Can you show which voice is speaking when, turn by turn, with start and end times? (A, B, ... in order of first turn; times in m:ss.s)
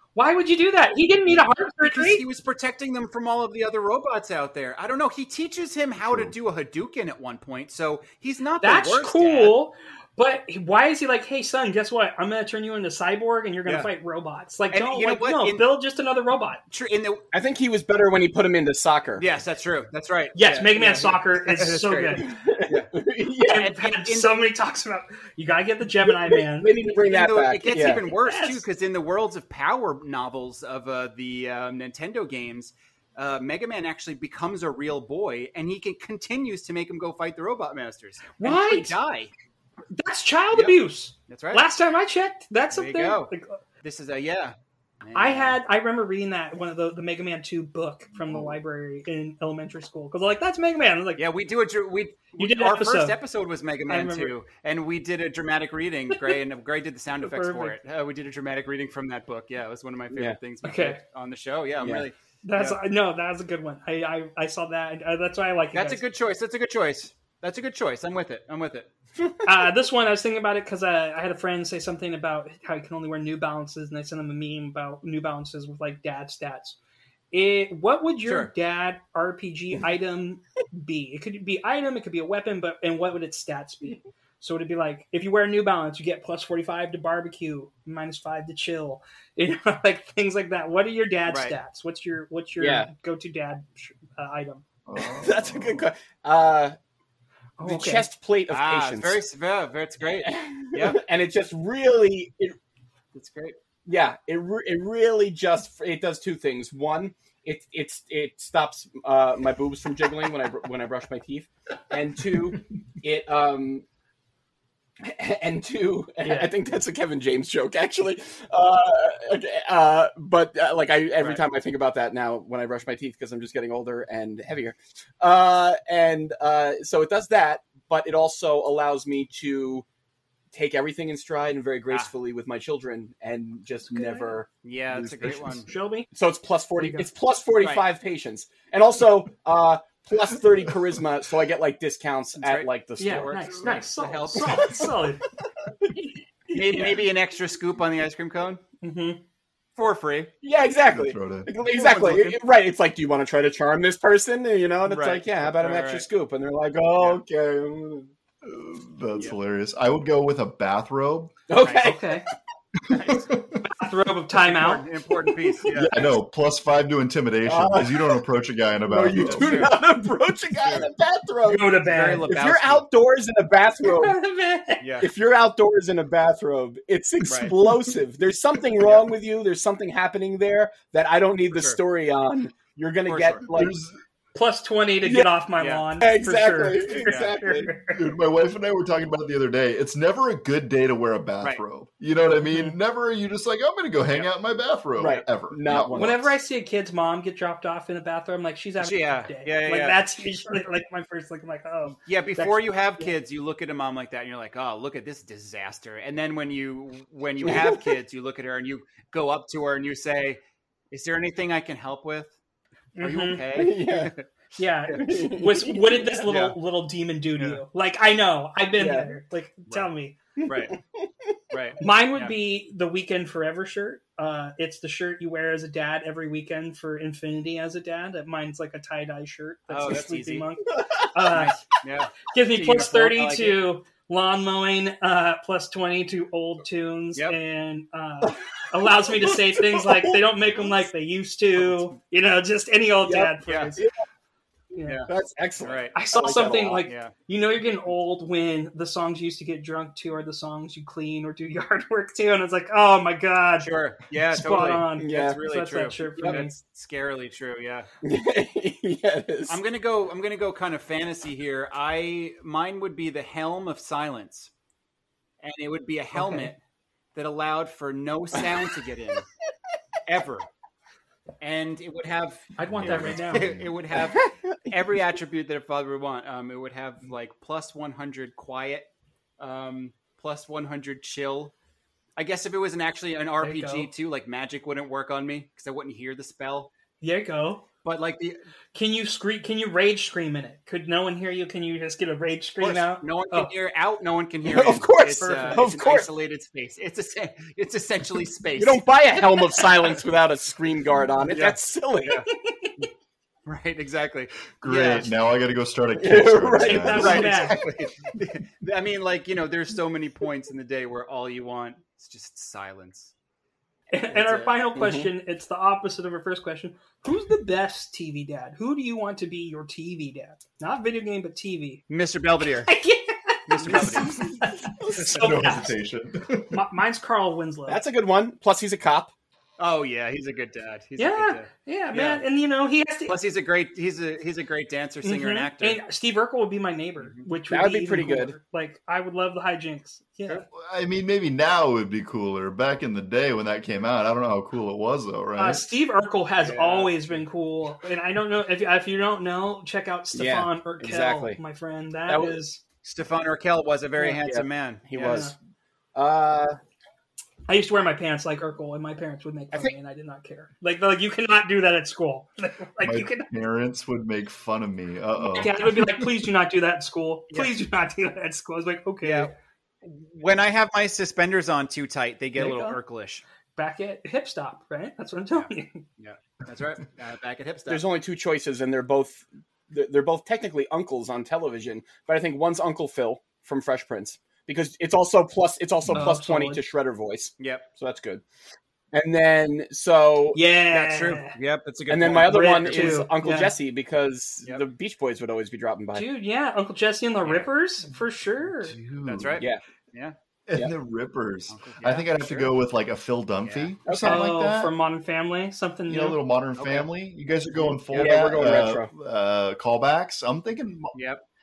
0:00.1-0:02.2 A
0:01.8-0:09.5 B
0:06.0-0:06.3 C
0:08.6-0:16.6 A
0:14.7-0:15.6 B
0:16.7-0:17.2 B
0:17.3-0:19.2 D
0:19.2-0:22.9 B
0:20.3-0:22.2 A
0:22.2-0:23.6 D
0:23.5-0:26.7 A
0:23.5-0:24.4 B
0:26.0-0:28.0 D
0:26.9-0:39.3 B
0:27.6-0:28.6 A
0:38.4-0:39.0 A
0:39.9-0:43.6 A
0:41.3-0:41.6 B
0:42.7-0:43.3 B
0:43.8-0:45.6 B
0:45.1-0:51.2 A
0:51.2-1:02.8 B
0:52.4-0:53.2 A
0:53.9-0:54.3 A
0:57.2-0:57.8 A
1:00.6-1:01.0 A
1:01.8-1:02.1 D
1:02.4-1:06.0 A
1:05.7-1:08.9 B
1:09.4-1:16.8 A
1:17.3-1:34.6 A
1:18.2-1:18.5 B
1:31.3-1:31.5 B
1:32.6-1:32.9 D
1:34.8-1:35.9 C
1:35.0-1:36.8 D
1:37.6-1:38.1 A
1:37.6-1:39.2 D
1:38.5-1:41.0 B
1:40.2-1:42.6 D
1:43.1-1:43.6 B
1:43.8-1:53.8 D
1:55.0-2:09.8 D
1:56.2-1:56.5 A
2:10.5-2:15.6 D
2:13.9-2:14.3 A
2:14.6-2:15.7 B
2:15.3-2:16.1 A
2:16.1-2:23.8 D
2:16.8-2:17.1 A
2:22.4-2:24.8 B
2:23.0-2:25.2 A
2:24.4-2:25.0 D
2:25.8-2:27.0 D
2:26.5-2:28.6 B
2:28.8-2:29.2 A
2:29.8-2:30.3 B
2:30.4-2:38.1 D
2:30.9-2:31.5 C
2:31.7-2:32.4 A
2:34.8-2:36.0 B
2:38.4-2:41.3 C
2:41.5-2:42.2 D
2:41.6-2:42.0 B
2:41.8-2:42.2 A
2:42.8-2:43.6 C
2:42.9-2:43.2 D
2:43.6-2:44.8 A
2:44.4-2:46.0 B
2:45.6-2:46.1 D
2:45.6-2:49.7 C
2:47.4-2:48.2 D
2:48.9-2:54.2 D
2:49.2-2:49.8 B
2:50.6-2:50.9 B
2:51.5-2:52.3 A
2:51.8-2:52.8 B
2:53.8-2:54.8 A
2:54.8-2:55.1 B
2:55.0-3:03.7 D
2:57.2-2:57.5 B
2:58.8-2:59.1 B
3:01.5-3:01.8 B
3:03.1-3:03.4 B
3:03.5-3:04.0 C
3:04.3-3:08.0 A
3:05.0-3:05.3 D
3:05.6-3:05.8 B
3:06.0-3:07.7 D
3:07.0-3:07.3 B
3:07.9-3:16.3 C
3:12.4-3:12.8 A
3:15.0-3:16.2 D
3:15.9-3:23.1 A
3:18.8-3:20.0 B
3:22.0-3:30.4 B
3:27.4-3:27.8 D
3:30.9-3:32.3 B
3:33.0-3:33.4 A
3:33.0-3:34.3 B
3:33.5-3:34.1 D
3:34.6-3:40.1 A
3:35.0-3:36.2 D
3:36.3-3:36.5 B
3:38.8-3:39.1 D
3:40.4-3:41.3 D
3:40.4-3:40.8 B
3:41.5-3:42.3 B
3:41.8-3:51.6 A
3:49.7-3:50.4 B
3:50.7-3:51.5 D
3:51.3-3:53.6 B
3:52.3-4:03.8 A
3:58.2-4:00.7 D
4:03.0-4:03.9 D
4:03.5-4:03.7 B
4:04.7-4:05.0 A
4:05.1-4:06.9 D
4:05.6-4:06.0 B
4:05.9-4:13.7 A
4:13.6-4:17.9 B
4:14.3-4:16.5 A
4:15.0-4:15.4 D
4:16.2-4:16.4 D
4:18.0-4:19.6 D
4:19.5-4:24.5 B
4:25.4-4:26.6 B
4:26.2-4:26.5 A
4:27.1-4:29.2 B
4:28.3-4:28.6 D
4:30.0-4:30.5 B
4:31.4-4:38.9 B
4:32.6-4:33.5 A
4:32.7-4:33.7 C
4:33.9-4:34.3 D
4:39.4-4:41.5 B
4:42.2-4:46.7 B
4:43.4-4:43.9 A
4:47.0-4:47.6 A
4:47.8-4:48.4 B
4:48.7-4:53.5 A
4:52.6-5:00.0 B
4:54.4-4:56.1 D
4:55.2-4:55.7 A
4:58.6-5:02.2 D
5:01.3-5:02.2 B
5:02.3-5:02.9 A
5:03.4-5:05.1 B
5:04.6-5:07.7 C
5:06.0-5:07.4 D
5:06.6-5:07.6 A
5:07.0-5:13.1 B
5:13.9-5:21.8 A
5:14.1-5:14.5 B
5:14.7-5:15.1 D
5:21.9-5:22.7 B
5:22.6-5:25.7 A
5:23.5-5:24.3 B
5:23.6-5:25.3 D
5:25.1-5:26.6 C
5:26.5-5:27.8 A
5:27.7-5:29.1 D
5:29.6-5:32.2 B
5:31.0-5:33.2 A
5:33.1-5:35.8 B
5:35.0-5:40.4 A
5:37.5-5:38.3 D
5:40.5-5:45.6 C
5:45.4-5:52.6 A
5:46.4-5:47.1 B
5:50.1-5:51.4 D
5:52.1-5:52.4 D
5:52.8-5:55.2 B
5:54.0-5:55.3 D
5:55.0-5:55.3 A
5:55.9-5:56.6 D
5:57.5-6:03.3 A
6:02.8-6:05.7 C
6:05.4-6:09.3 A
6:09.0-6:09.3 B
6:09.8-6:13.2 B
6:12.4-6:12.8 A
6:13.5-6:15.8 A
6:15.3-6:17.8 B
6:17.7-6:28.2 D
6:25.9-6:26.6 A
6:27.4-6:27.6 B
6:28.9-6:30.4 D
6:30.3-6:31.4 A
6:30.7-6:33.0 B
6:31.9-6:36.0 D
6:32.2-6:33.5 A
6:35.9-6:38.8 A
6:38.4-6:39.4 C
6:39.0-6:40.1 B
6:40.5-6:44.7 C
6:41.5-6:42.5 B
6:43.4-6:43.7 B
6:43.8-6:44.2 D
6:44.0-6:46.2 A
6:45.9-6:51.0 C
6:46.6-6:46.8 D
6:47.6-6:48.2 B
6:47.9-6:48.9 D
6:50.9-6:51.2 B